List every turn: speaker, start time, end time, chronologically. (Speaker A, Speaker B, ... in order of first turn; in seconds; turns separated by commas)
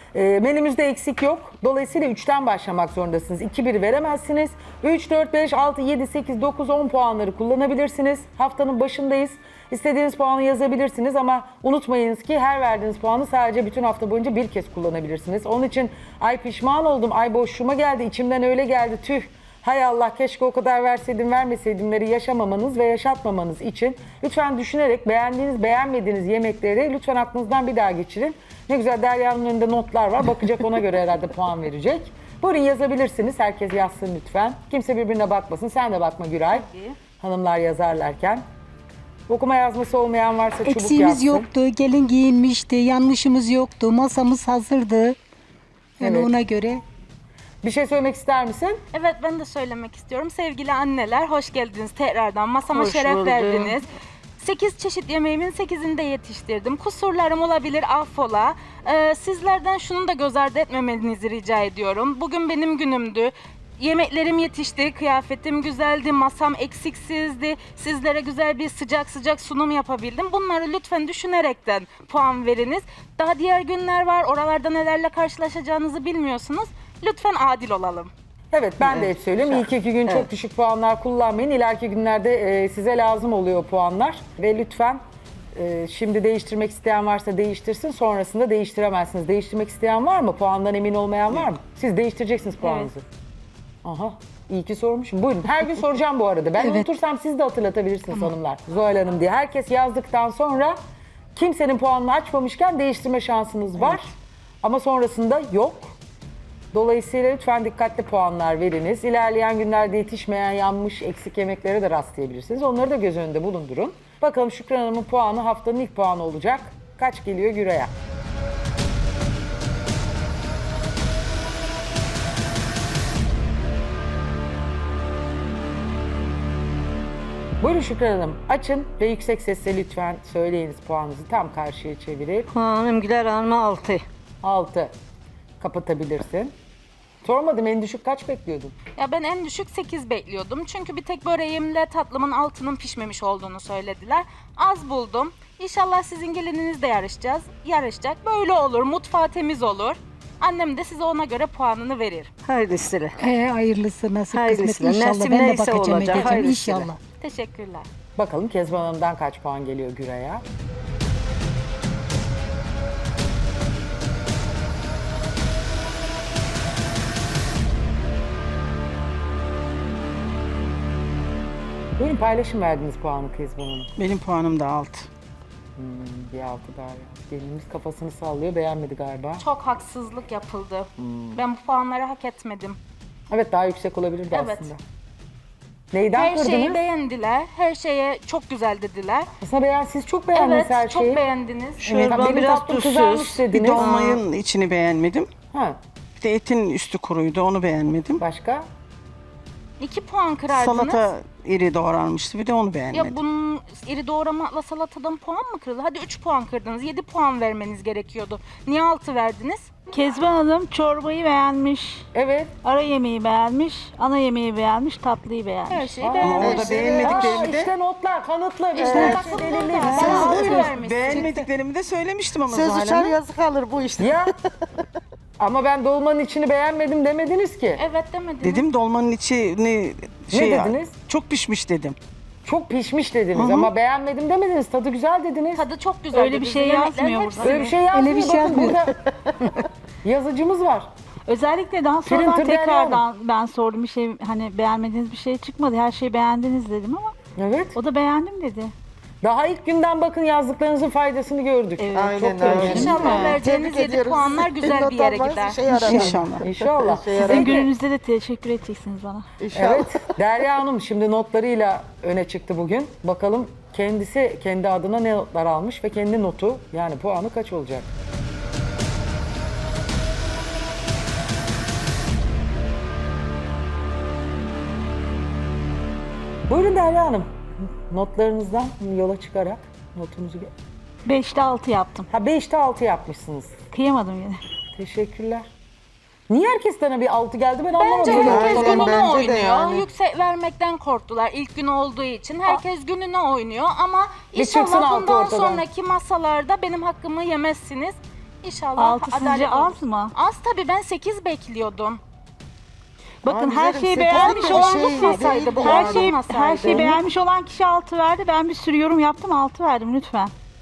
Speaker A: 0.1-36.7, Speaker B: 36.5-37.0, Speaker A: 37.2-38.5, Speaker A: 39.3-41.5, Speaker C: 40.6-45.2, Speaker C: 46.0-46.8, Speaker A: 46.0-46.3, Speaker A: 47.6-48.8, Speaker B: 48.9-78.1, Speaker D: 52.6-53.8, Speaker A: 78.5-85.0, Speaker D: 78.8-79.1, Speaker A: 85.5-93.0, Speaker E: 92.6-92.9, Speaker A: 93.8-100.8, Speaker C: 96.6-96.9, Speaker A: 101.3-106.0, Speaker A: 106.7-117.9, Speaker A: 127.6-132.5, Speaker D: 132.5-134.0, Speaker A: 134.4-134.9, Speaker A: 135.6-136.5, Speaker A: 137.2-138.7, Speaker B: 138.9-152.3, Speaker D: 152.4-153.2, Speaker C: 153.2-157.0, Speaker D: 154.3-156.9, Speaker B: 157.2-157.9, Speaker A: 158.2-160.4, Speaker A: 172.0-173.9, Speaker F: 174.0-175.1, Speaker A: 175.8-179.4, Speaker B: 179.4-182.8, Speaker A: 181.0-181.4, Speaker A: 183.3-184.8, Speaker B: 184.3-184.7, Speaker A: 185.9-186.8, Speaker B: 186.1-189.3, Speaker A: 189.4-191.2, Speaker B: 190.3-191.9, Speaker D: 191.8-194.2, Speaker A: 191.8-193.9, Speaker F: 193.5-195.3, Speaker A: 195.5-195.8, Speaker F: 196.2-198.2, Speaker A: 198.2-198.7, Speaker B: 199.8-201.1, Speaker F: 200.5-203.2, Speaker B: 202.9-209.8, Speaker E: 209.9-212.0, Speaker A: 212.1-212.5, Speaker E: 212.6-216.0, Speaker B: 215.7-217.4, Speaker A: 216.0-220.3, Speaker F: 216.2-217.7, Speaker G: 216.4-217.5, Speaker B: 218.7-221.4, Speaker C: 218.8-221.4, Speaker G: 219.9-220.6, Speaker F: 220.5-223.2, Speaker G: 222.4-224.3, Speaker A: 224.0-224.3, Speaker A: 225.4-227.8, Speaker B: 227.8-228.6, Speaker F: 228.4-231.9, Speaker A: 230.3-230.9, Speaker A: 232.4-235.6, Speaker F: 233.3-233.7, Speaker B: 235.5-237.7, Speaker E: 236.1-237.7, Speaker A: 237.4-238.9, Speaker C: 237.9-238.8, Speaker A: 240.0-240.9, Speaker E: 241.2-247.1, Speaker A: 242.1-243.0, Speaker A: 247.4-247.8, Speaker E: 247.7-248.7, Speaker A: 249.2-253.1, Speaker E: 251.8-253.4, Speaker G: 251.9-257.6, Speaker B: 252.6-255.7, Speaker F: 255.7-256.5, Speaker E: 255.9-256.1, Speaker A: 256.4-257.1, Speaker B: 257.1-257.7, Speaker E: 257.1-259.2, Speaker G: 259.4-260.1, Speaker A: 259.6-267.9, Speaker A: 276.5-280.5, Speaker E: 281.1-282.1, Speaker A: 282.1-283.6, Speaker E: 283.7-284.4, Speaker A: 284.7-285.5, Speaker A: 286.3-289.0, Speaker B: 287.7-302.0, Speaker C: 288.1-288.6, Speaker G: 288.1-289.9, Speaker A: 294.3-295.6, Speaker E: 298.8-300.1, Speaker E: 303.2-310.3, Speaker G: 303.3-306.2, Speaker B: 304.1-307.0